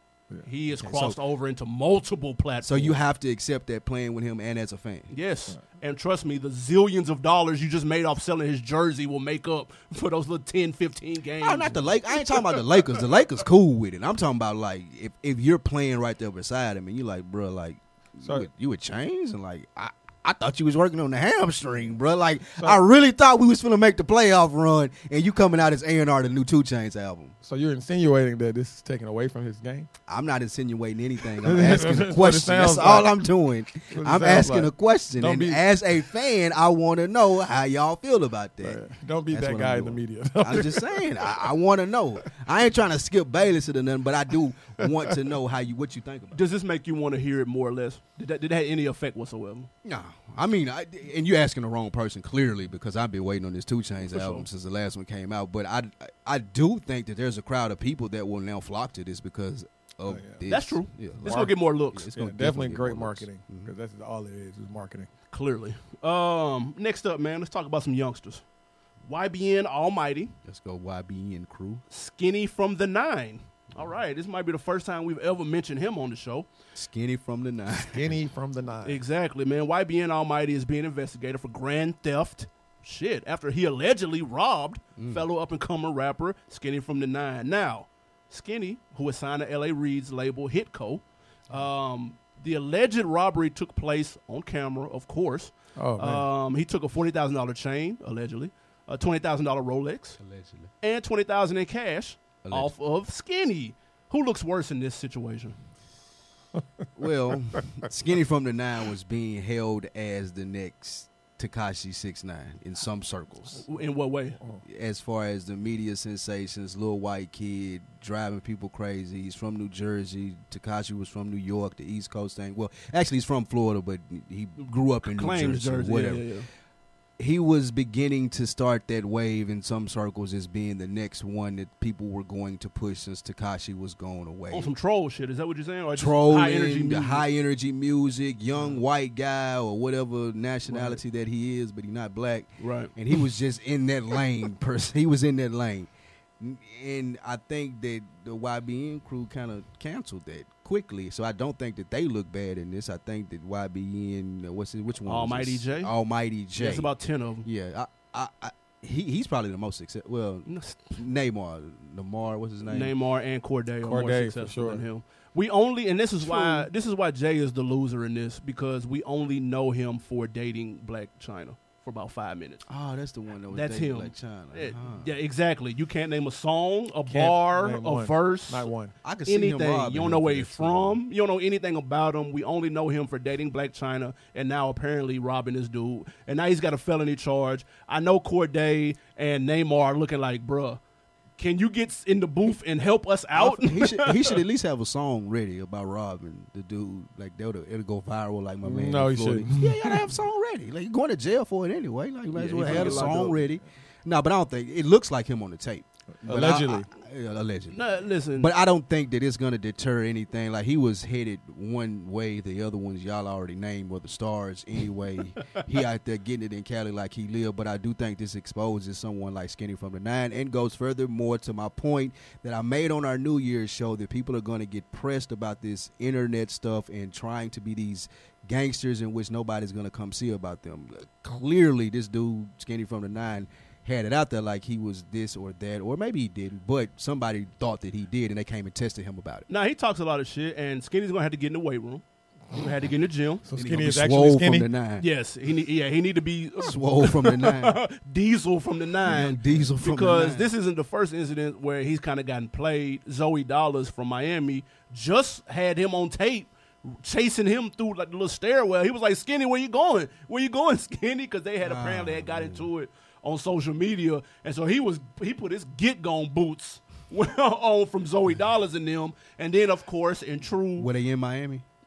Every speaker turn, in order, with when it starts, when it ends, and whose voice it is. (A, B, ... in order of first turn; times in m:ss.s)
0:00.4-0:03.0 A
0:00.7-0:01.2 B
0:02.6-0:05.1 B
0:05.1-0:12.6 A
0:11.4-0:27.3 B
0:27.4-0:29.9 C
0:30.1-0:46.4 B
0:31.4-0:33.2 C
0:33.8-0:35.6 C
0:38.6-0:41.5 C
0:46.3-0:49.7 A
0:49.8-1:03.7 B
0:54.1-0:54.4 A
1:00.1-1:00.4 C
1:00.5-1:02.1 A
1:01.2-1:01.6 C
1:02.2-1:05.1 C
1:05.3-1:08.4 A
1:09.1-1:10.3 A
1:10.4-1:11.8 B
1:11.9-1:16.5 A
1:16.7-1:18.2 B
1:17.7-1:19.0 C
1:18.8-1:40.2 A
1:25.0-1:25.2 B
1:35.8-1:36.2 C
1:40.2-1:40.7 B
1:40.8-1:45.6 A
1:42.4-1:42.7 B
1:47.0-1:53.6 B
1:53.6-1:54.4 A
1:54.6-2:06.3 B
2:05.0-2:06.5 A
2:07.2-2:14.7 B
2:14.5-2:17.2 A
2:15.9-2:42.9 B
2:20.7-2:21.0 A
2:22.6-2:22.9 A
2:35.0-2:35.9 A
2:36.6-2:37.4 A
2:40.5-2:40.8 A
2:42.7-2:52.6 A
2:43.8-2:44.8 C
2:46.2-2:46.7 B
2:52.7-2:55.1 B
2:53.5-2:58.7 A
2:57.1-2:58.9 C
2:59.0-3:01.0 B
2:59.3-3:10.8 A
3:11.4-3:14.4 A
3:13.3-3:27.8 B
3:18.6-3:20.1 C
3:22.3-3:23.4 A
3:22.6-3:23.2 C
3:26.2-3:26.9 C
3:27.7-3:28.5 A
3:28.4-3:59.5 B
3:59.5-4:03.4 A
4:03.5-4:04.7 C
4:03.5-4:05.0 B
4:05.0-4:30.9 A
4:06.6-4:07.8 B
4:09.0-4:10.5 B
4:21.6-4:22.7 B
4:30.8-4:31.6 B